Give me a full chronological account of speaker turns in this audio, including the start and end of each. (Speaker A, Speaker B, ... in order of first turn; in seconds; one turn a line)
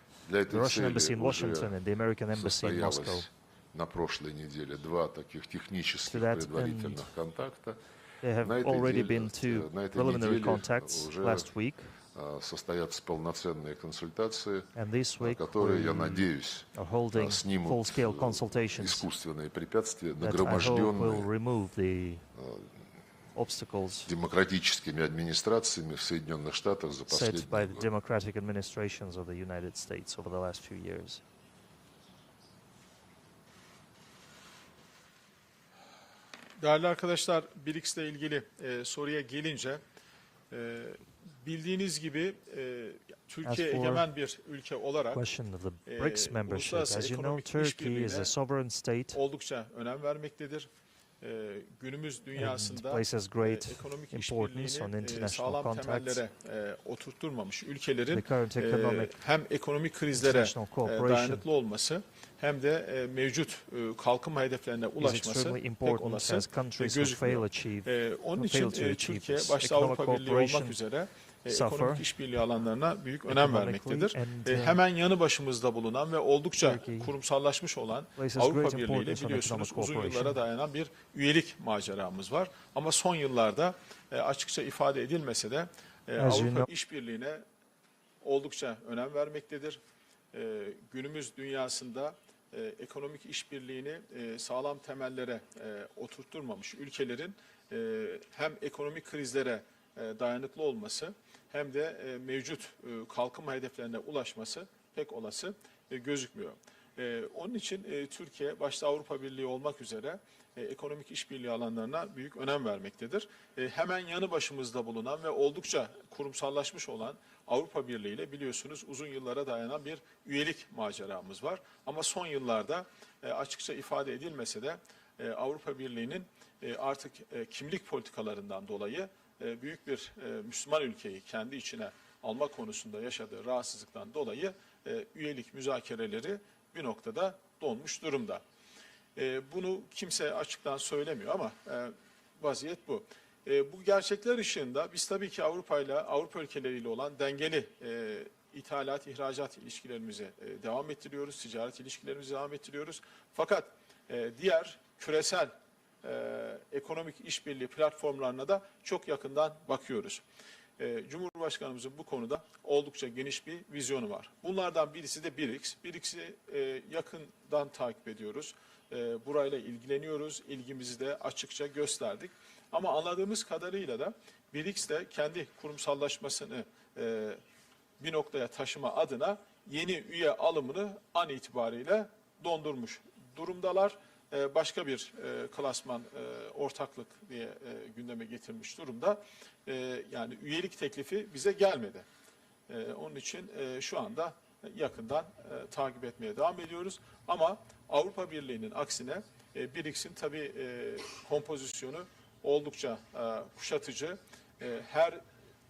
Speaker A: 0.2-1.8
Speaker B: 0.5-3.3
Speaker A: 2.3-7.8
Speaker B: 6.1-7.2
Speaker B: 8.2-12.0
Speaker A: 8.4-11.5
Speaker A: 12.1-21.3
Speaker B: 14.7-19.1
Speaker B: 20.2-22.2
Speaker A: 22.4-22.7
Speaker B: 23.3-24.1
Speaker A: 24.1-27.9
Speaker B: 27.1-31.2
Speaker C: 36.6-39.8
Speaker C: 40.5-45.2
Speaker B: 43.4-44.1
Speaker B: 45.1-49.2
Speaker C: 45.9-48.3
Speaker C: 49.1-50.7
Speaker C: 51.2-87.4
Speaker B: 52.3-56.2
Speaker B: 58.1-59.1
Speaker B: 60.1-61.4
Speaker B: 65.0-70.8
Speaker B: 71.5-72.1
Speaker B: 73.3-74.8
Speaker B: 76.6-77.1
Speaker B: 78.2-80.4
Speaker B: 86.2-86.7
Speaker C: 88.2-89.8
Speaker C: 90.3-138.4
Speaker C: 139.2-160.2
Speaker C: 160.8-177.4
Speaker C: 178.0-192.1
Speaker C: 192.7-205.2